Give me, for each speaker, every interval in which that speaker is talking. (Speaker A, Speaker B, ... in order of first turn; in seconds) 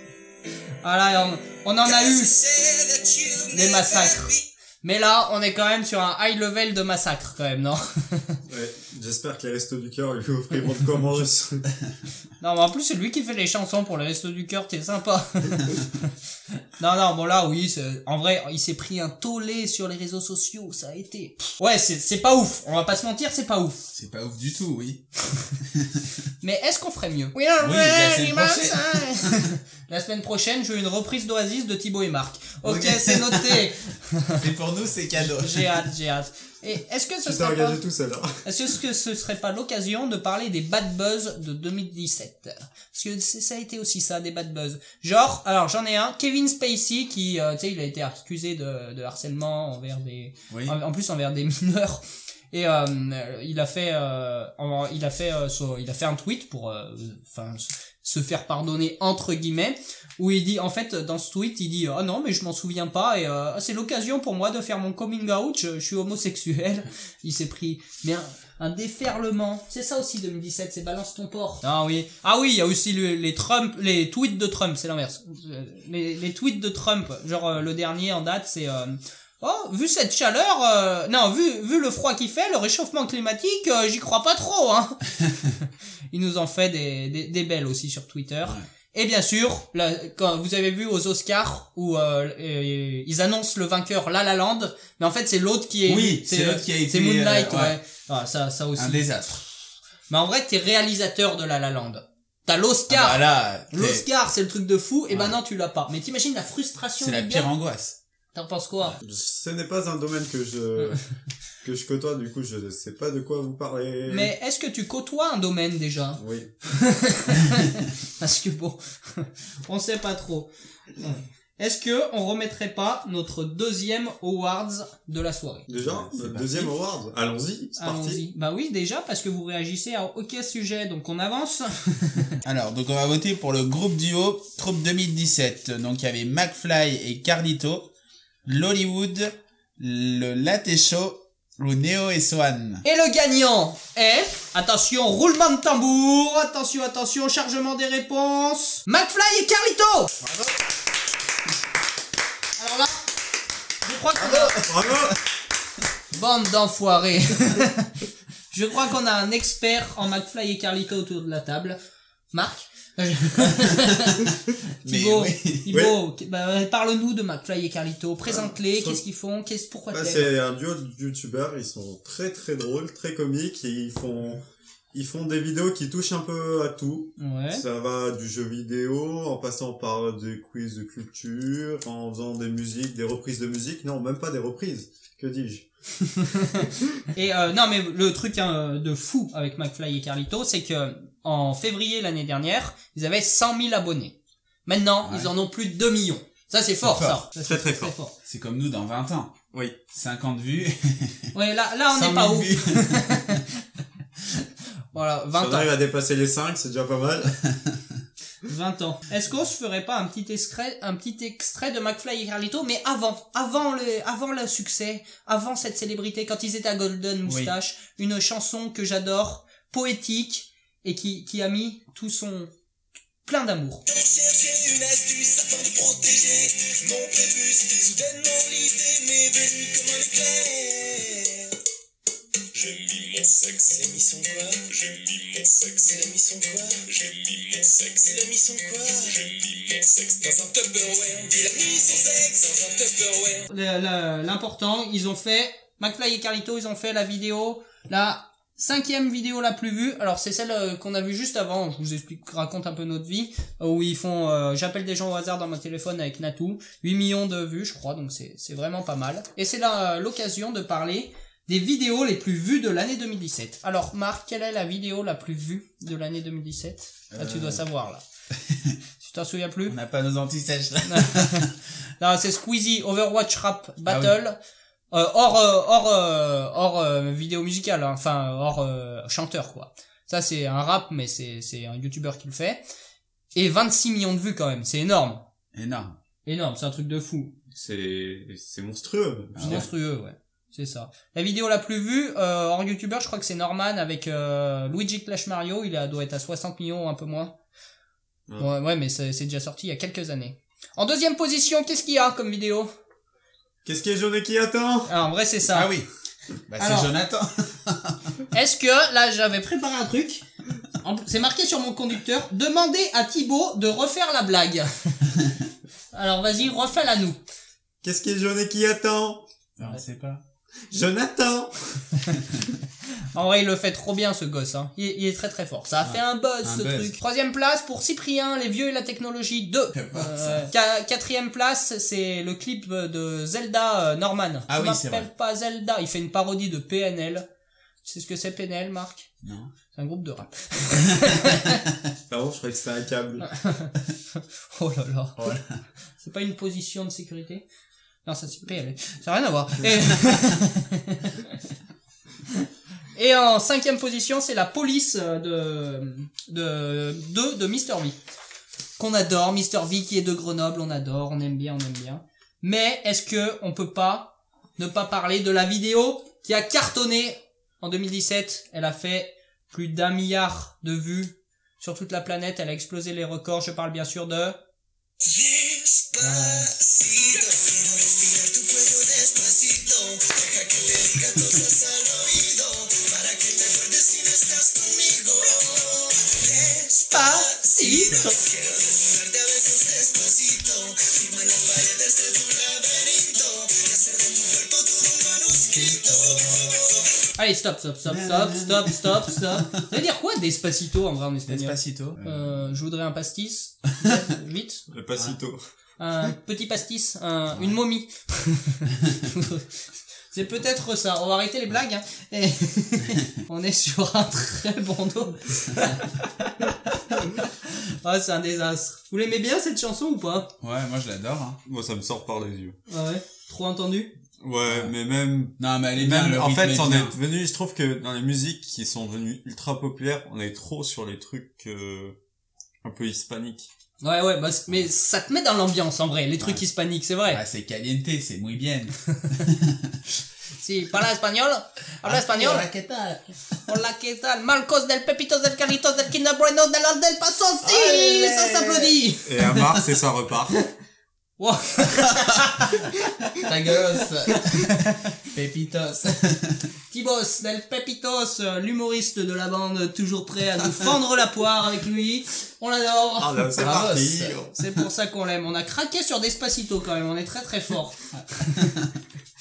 Speaker A: 0.8-2.3, 3.5-8.4, 12.4-16.1, 16.8-23.9, 26.4-34.4, 35.2-37.8, 38.4-52.0, 52.5-99.2, 100.1-107.5, 108.3-109.0, 114.1-125.7, 127.8-132.3, 142.8-150.1, 152.6-153.0, 153.8-154.6, 156.1-157.9, 158.5-161.8, 162.3-170.3, 177.2-177.6, 186.1-194.1, 194.7-198.1, 201.3-203.4, 204.9-205.7, 208.4-222.5, 223.2-223.8, 243.5-268.0, 269.0-269.8, 270.9-271.5, 272.0-274.4, 274.9-282.6, 283.3-285.2, 286.2-287.4, 289.4-297.3, 298.4-302.7, 304.9-305.7, 306.6-306.9, 308.3-310.2, 310.8-314.9, 315.9-317.2, 323.1-337.2, 337.8-339.1, 339.7-341.6, 343.2-345.4, 346.0-347.4, 348.0-351.4, 352.9-358.0, 358.8-374.4, 376.0-376.5, 386.9-388.1, 397.2-404.6, 405.8-420.3, 422.7-423.9, 433.8-437.2, 440.4-442.5, 443.4-449.3, 451.2-452.7, 454.4-454.8, 456.7-468.4
Speaker B: 1.8-4.4, 223.9-231.6, 232.5-243.5, 375.0-396.9
Speaker C: 8.5-11.7, 37.2-38.4, 109.0-111.0, 111.6-114.3, 116.2-116.5, 125.7-128.2, 154.4-155.1, 165.7-166.0, 168.3-169.0, 169.9-185.7, 197.4-197.9, 205.3-207.4, 287.5-289.7, 303.6-304.9, 317.8-319.2, 320.7-322.1, 342.1-343.3, 404.7-405.4, 421.4-422.6, 424.2-432.0, 432.6-433.5, 449.0-450.4, 463.0-464.3
Speaker D: 23.9-25.1, 25.6-26.2, 27.6-29.5, 32.6-33.6, 34.3-35.9, 50.5-50.8, 95.8-97.8, 98.8-99.4, 102.9-104.0, 105.1-105.3, 107.0-108.0, 125.8-126.7, 132.4-137.9, 138.4-142.8, 150.2-150.6, 154.2-155.2, 164.8-165.7, 195.0-195.3, 196.8-197.2, 198.2-199.3, 199.9-201.3, 201.9-203.4, 217.2-217.5, 267.1-267.6, 268.3-268.8, 269.7-271.5, 273.9-274.1, 285.5-285.9, 289.3-289.7, 305.5-305.9, 306.5-308.1, 319.6-320.2, 325.8-326.9, 329.7-330.5, 334.5-335.1, 339.2-339.5, 345.2-345.6, 397.9-399.6, 401.2-402.0, 420.4-421.4, 425.4-426.9, 437.1-439.8, 441.8-443.1, 447.4-448.7, 453.2-454.6, 455.1-456.4, 463.4-464.2, 467.9-468.7